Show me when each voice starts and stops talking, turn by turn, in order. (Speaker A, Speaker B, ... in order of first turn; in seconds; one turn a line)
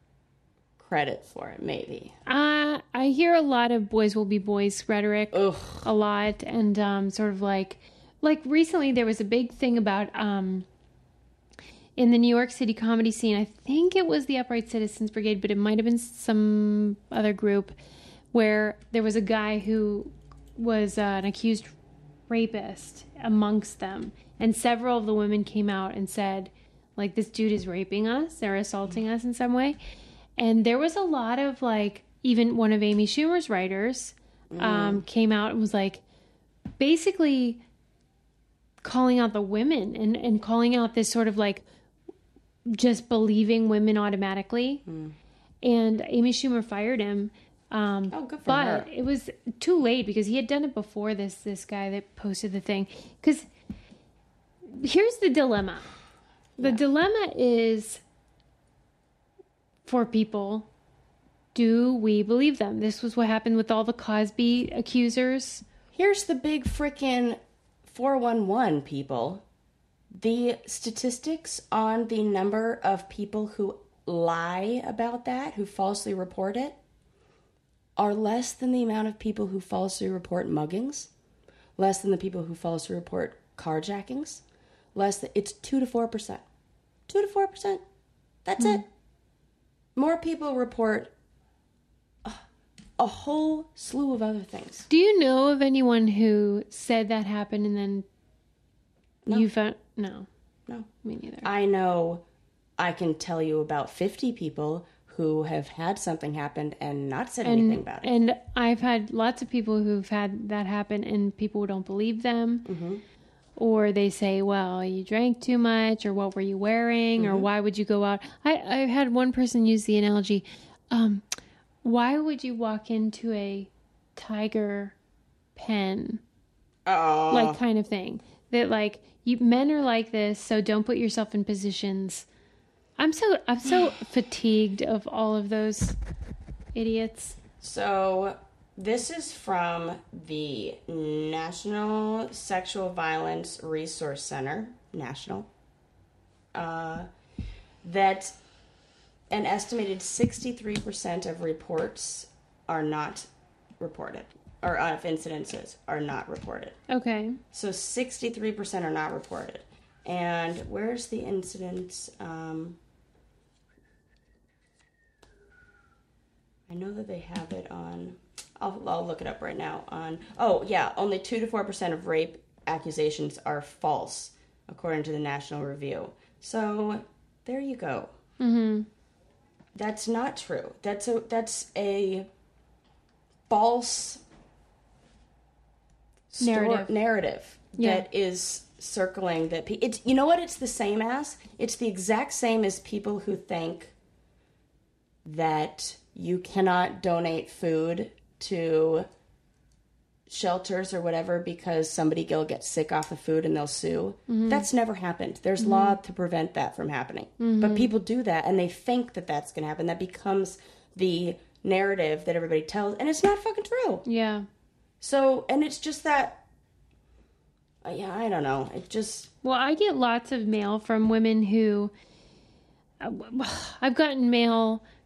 Speaker A: 0.8-2.1
Speaker B: 2.2-10.7
Speaker A: 5.3-5.9
Speaker B: 12.0-17.7
Speaker B: 18.3-21.7
Speaker B: 22.3-29.8
Speaker B: 30.4-36.0
Speaker A: 34.5-35.0
Speaker B: 36.8-37.6
Speaker B: 38.8-41.6
Speaker B: 42.7-44.8
Speaker A: 44.9-45.2
Speaker B: 45.6-53.5
Speaker A: 48.1-48.9
Speaker B: 54.7-55.9
Speaker B: 56.6-58.0
Speaker B: 59.8-60.7
Speaker B: 61.5-65.6
Speaker A: 65.9-69.4
Speaker A: 70.1-76.8
Speaker A: 78.0-81.1
Speaker A: 81.8-84.4
Speaker A: 84.9-86.4
Speaker A: 87.1-87.8
Speaker A: 88.4-88.8
Speaker A: 89.9-91.1
Speaker A: 93.0-94.9
Speaker B: 94.9-98.0
Speaker B: 99.3-100.3
Speaker B: 101.0-101.5
Speaker A: 101.4-102.2
Speaker A: 102.8-108.1
Speaker B: 107.4-112.7
Speaker A: 112.6-113.0
Speaker B: 113.6-121.2
Speaker A: 117.2-117.5
Speaker B: 121.8-124.9
Speaker B: 125.5-126.2
Speaker A: 126.8-127.6
Speaker B: 127.3-132.3
Speaker B: 133.0-136.0
Speaker B: 136.7-137.4
Speaker A: 137.6-145.5
Speaker A: 146.5-147.1
Speaker A: 147.8-148.4
Speaker A: 149.3-156.8
Speaker B: 156.9-157.4
Speaker A: 157.5-162.8
Speaker A: 166.7-178.1
Speaker B: 178.4-178.9
Speaker A: 179.7-182.3
Speaker A: 183.5-184.2
Speaker A: 186.3-193.9
Speaker B: 186.4-186.9
Speaker B: 187.8-188.1
Speaker A: 195.2-199.1
Speaker A: 200.3-214.0
Speaker B: 204.3-204.7
Speaker B: 205.6-206.0
Speaker B: 207.4-207.9
Speaker B: 214.0-214.4
Speaker A: 215.0-216.4
Speaker A: 217.8-219.3
Speaker B: 219.4-221.9
Speaker B: 223.0-224.8